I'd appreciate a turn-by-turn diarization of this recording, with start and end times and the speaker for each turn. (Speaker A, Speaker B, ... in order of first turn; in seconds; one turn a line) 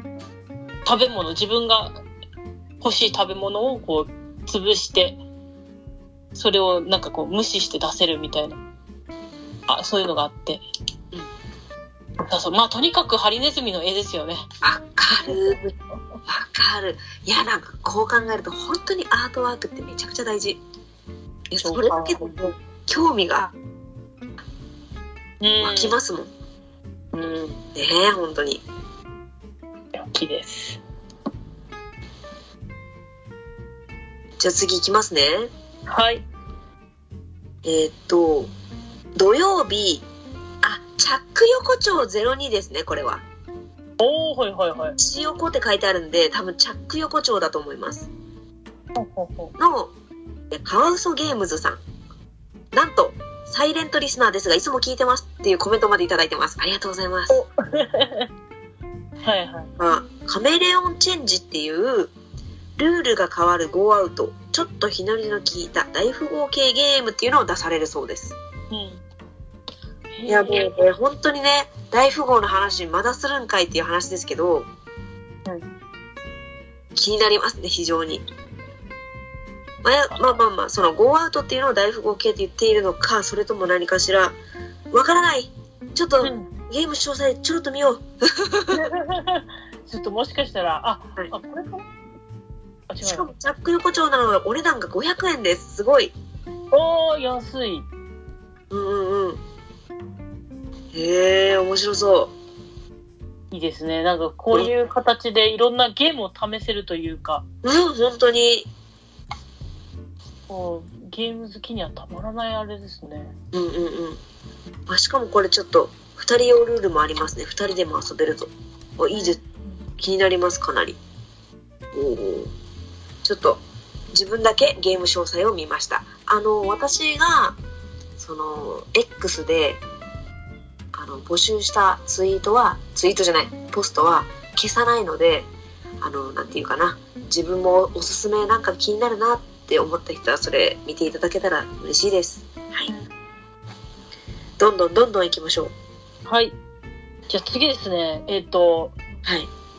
Speaker A: 0.8-2.0
Speaker A: 2.8-5.2
Speaker A: 6.3-8.6
Speaker A: 9.7-10.6
Speaker A: 12.2-14.4
Speaker B: 14.6-15.7
Speaker A: 15.3-15.5
Speaker B: 16.3-20.6
Speaker B: 21.5-23.5
Speaker A: 21.6-22.4
Speaker A: 25.4-26.0
Speaker B: 25.6-26.3
Speaker A: 27.1-27.6
Speaker B: 27.8-28.6
Speaker A: 30.0-30.8
Speaker B: 34.4-35.5
Speaker A: 35.9-36.2
Speaker B: 37.6-38.5
Speaker B: 39.1-40.0
Speaker B: 40.6-43.2
Speaker A: 44.0-45.0
Speaker B: 45.0-48.1
Speaker A: 49.0-49.5
Speaker B: 49.6-49.9
Speaker B: 50.5-51.8
Speaker B: 52.7-57.4
Speaker A: 57.3-58.3
Speaker A: 59.2-59.7
Speaker B: 59.8-62.1
Speaker B: 62.8-68.4
Speaker A: 68.7-69.0
Speaker A: 70.2-70.7
Speaker B: 70.3-74.7
Speaker B: 77.0-78.2
Speaker B: 79.8-84.4
Speaker B: 84.9-88.8
Speaker A: 86.2-86.5
Speaker A: 88.7-91.9
Speaker A: 92.9-93.3
Speaker B: 93.0-96.1
Speaker A: 96.7-97.9
Speaker B: 98.7-99.4
Speaker B: 100.9-102.3
Speaker A: 103.5-107.4
Speaker B: 107.6-108.7
Speaker A: 110.5-113.3
Speaker B: 113.5-114.2
Speaker B: 114.9-119.4
Speaker B: 120.0-121.0
Speaker B: 121.9-122.5
Speaker B: 123.2-123.6
Speaker B: 124.1-127.6
Speaker B: 128.2-129.8
Speaker B: 130.9-135.5
Speaker B: 136.0-142.9
Speaker B: 144.6-145.7
Speaker A: 146.3-146.6
Speaker A: 147.3-149.0
Speaker B: 149.2-149.5